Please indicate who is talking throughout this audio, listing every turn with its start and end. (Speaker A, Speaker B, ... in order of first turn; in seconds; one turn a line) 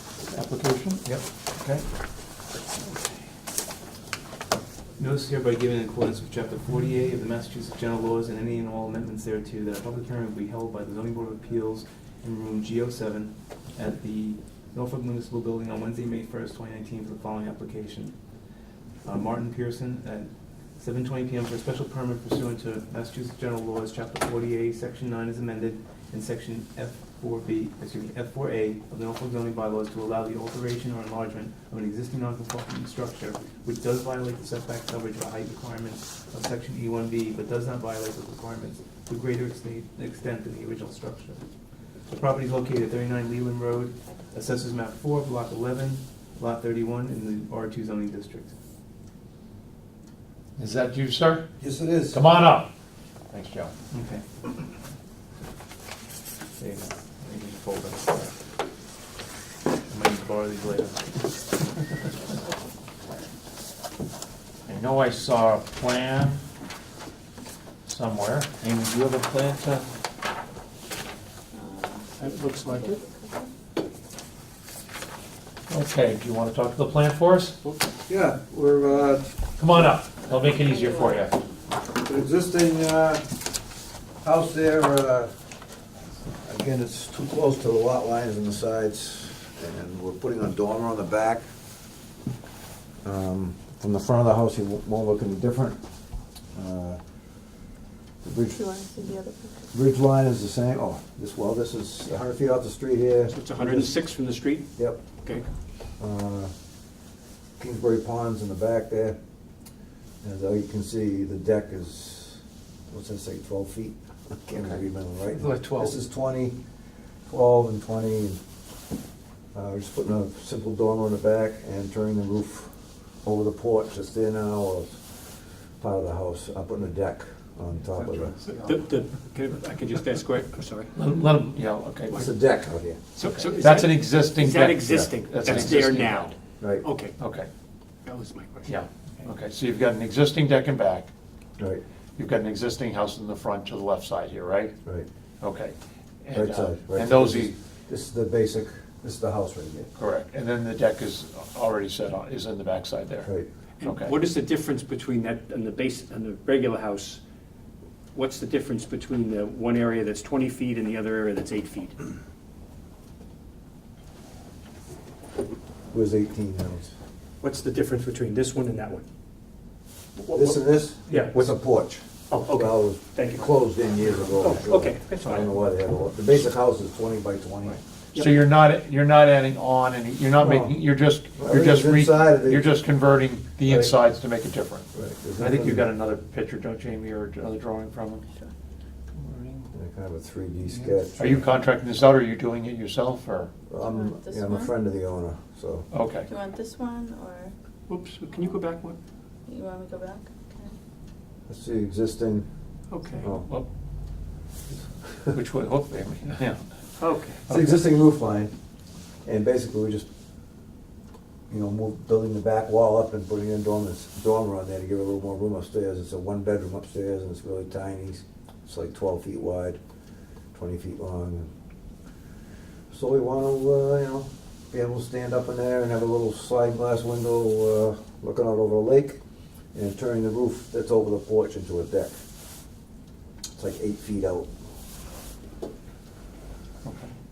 Speaker A: 0.3-1.0
Speaker B: 5.0-18.1
Speaker B: 19.0-41.4
Speaker B: 42.1-48.5
Speaker A: 50.6-51.5
Speaker C: 51.6-52.2
Speaker A: 52.1-52.7
Speaker A: 53.3-53.7
Speaker B: 53.9-54.2
Speaker B: 56.6-58.3
Speaker B: 59.9-61.1
Speaker A: 64.7-66.4
Speaker A: 67.8-69.8
Speaker D: 71.5-73.5
Speaker E: 72.2-73.0
Speaker A: 75.7-77.6
Speaker C: 78.1-79.9
Speaker A: 79.6-81.4
Speaker D: 80.5-81.3
Speaker C: 81.9-83.2
Speaker C: 84.2-85.3
Speaker C: 86.4-91.4
Speaker C: 93.0-95.8
Speaker C: 96.5-97.0
Speaker C: 98.2-98.6
Speaker D: 98.5-99.7
Speaker C: 99.7-104.1
Speaker E: 103.3-104.7
Speaker C: 106.0-106.5
Speaker C: 107.6-109.2
Speaker C: 110.2-116.6
Speaker E: 115.4-115.9
Speaker C: 117.3-118.4
Speaker C: 119.5-128.4
Speaker E: 128.5-131.0
Speaker A: 130.9-132.2
Speaker C: 132.1-133.0
Speaker E: 133.1-137.2
Speaker A: 133.2-136.3
Speaker C: 135.4-135.8
Speaker A: 137.2-137.5
Speaker E: 138.0-139.3
Speaker A: 138.6-141.1
Speaker A: 142.2-144.7
Speaker A: 145.4-147.5
Speaker C: 146.3-149.9
Speaker A: 149.9-153.3
Speaker E: 153.8-157.2
Speaker A: 153.8-154.2
Speaker E: 158.1-162.0
Speaker C: 165.9-166.9
Speaker E: 167.4-169.0
Speaker E: 170.2-175.6
Speaker C: 170.3-177.8
Speaker E: 177.7-178.4
Speaker A: 178.1-188.2
Speaker C: 180.4-182.8
Speaker C: 183.6-184.0
Speaker C: 184.9-185.9
Speaker E: 189.2-189.6
Speaker C: 189.7-191.5
Speaker A: 191.2-193.5
Speaker C: 193.7-195.9
Speaker D: 193.8-194.7
Speaker A: 195.9-196.3
Speaker D: 196.2-197.5
Speaker E: 197.9-199.0
Speaker D: 199.5-200.7
Speaker C: 201.5-202.4
Speaker E: 202.9-203.3
Speaker C: 203.1-203.5
Speaker A: 203.3-203.7
Speaker A: 205.3-206.7
Speaker E: 207.0-207.4
Speaker C: 207.5-208.5
Speaker C: 209.2-210.1
Speaker C: 211.5-219.8
Speaker C: 220.5-221.5
Speaker C: 222.9-229.2
Speaker C: 229.7-232.2
Speaker C: 233.6-234.5
Speaker A: 236.8-237.1